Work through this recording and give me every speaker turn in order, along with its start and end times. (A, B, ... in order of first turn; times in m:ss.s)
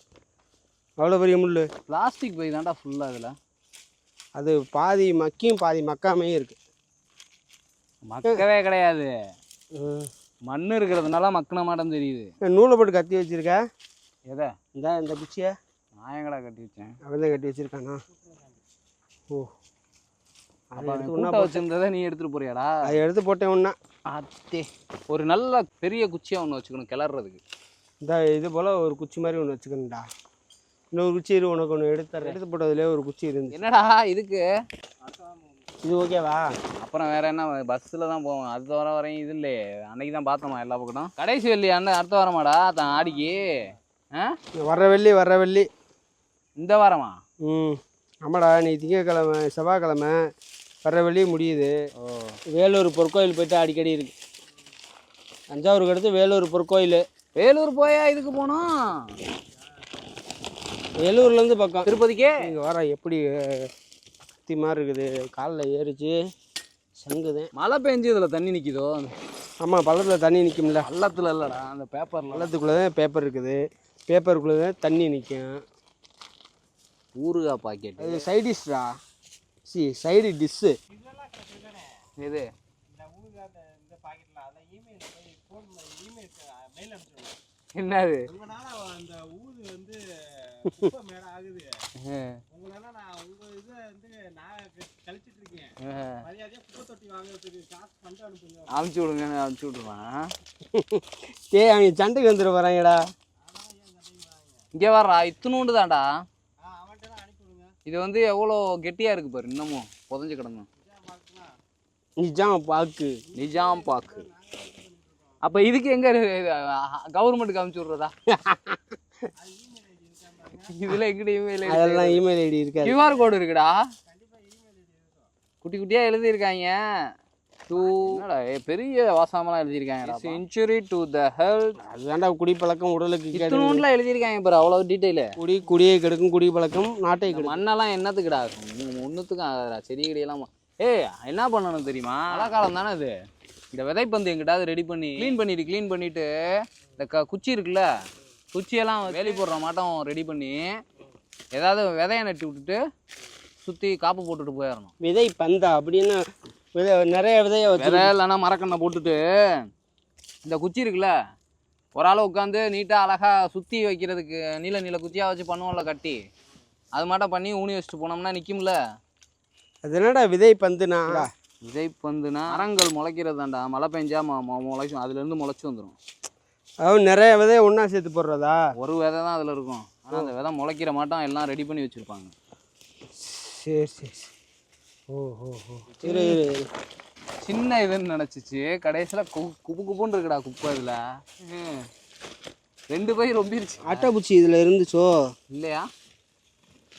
0:01.0-0:01.7 A
0:01.9-0:03.4 B
0:04.4-0:06.6 A
0:08.1-0:09.1 B
0:09.7-0:10.1 A
0:10.5-0:12.3 B
0:12.4-0:13.6 A
0:14.8-0:15.6 A
0:16.0-0:17.0 B
0:17.0-0:18.0 A
0:18.1-0:18.6 C
0:20.8-0:21.6 A
0:20.8-0:22.9 B
0:22.8-0:23.8 A
0:24.1-0:27.4 B
0:28.0-0:30.0 A
0:30.9-0:33.5 A
0:33.5-0:34.4 B
0:35.0-0:35.7 C
0:35.8-0:36.5 A
0:36.8-0:43.6 B
0:42.8-0:43.8 C
0:44.6-0:45.7 A
0:46.6-0:47.2 B
0:47.4-0:50.2 A
0:50.8-0:51.7 A
0:52.0-0:52.4 B
0:52.5-0:54.1 A
0:55.5-0:57.0 A
0:57.4-0:59.1 B
1:01.0-1:03.7 A
1:01.9-1:02.5 B
1:04.5-1:06.2 A
1:07.0-1:07.5 A
1:07.6-1:09.1 B
1:09.6-1:10.9 A
1:10.8-1:12.5 B
1:12.3-1:15.6 A
1:17.2-1:18.3 B
1:18.0-1:19.0 A
1:19.7-1:20.8 A
1:20.9-1:22.0 C
1:22.2-1:22.5 B
1:22.9-1:27.4 C
1:27.8-1:28.3 B
1:28.3-1:31.7 C
1:32.0-1:32.4 B
1:32.5-1:38.8 C
1:35.8-1:36.2 B
1:38.7-1:40.3 B
1:40.7-1:43.0 A
1:43.4-1:44.7 C
1:44.8-1:46.1 B
1:46.6-1:47.8 C
1:47.9-1:50.7 B
1:50.8-1:51.5 C
1:52.2-1:53.2 A
1:53.3-1:55.7 C
1:53.4-1:54.2 B
1:55.4-1:58.1 B
1:58.3-1:59.0 A
1:59.4-2:00.7 C
2:00.7-2:02.2 B
2:01.7-2:03.0 A
2:02.8-2:03.9 B
2:04.1-2:05.3 C
2:05.6-2:06.8 B
2:07.7-2:11.8 B
2:07.7-2:08.2 C
2:10.1-2:10.4 A
2:11.8-2:13.8 A
2:13.3-2:15.3 B
2:15.4-2:17.6 A
2:17.3-2:23.2 B
2:23.7-2:26.3 B
2:27.0-2:27.9 B
2:28.5-2:30.7 B
2:31.6-2:32.8 B
2:33.6-2:34.9 B
2:35.0-2:38.1 A
2:37.8-2:39.7 B
2:40.4-2:41.1 B
2:42.0-2:46.2 B
2:47.0-2:48.8 B
2:49.8-2:51.3 A
2:51.1-2:56.0 B
2:56.8-2:58.6 A
2:58.8-3:02.3 B
3:03.2-3:04.3 A
3:05.1-3:06.7 A
3:05.9-3:06.4 B
3:07.4-3:11.9 B
3:12.9-3:14.1 B
3:13.8-3:15.2 A
3:15.5-3:15.9 B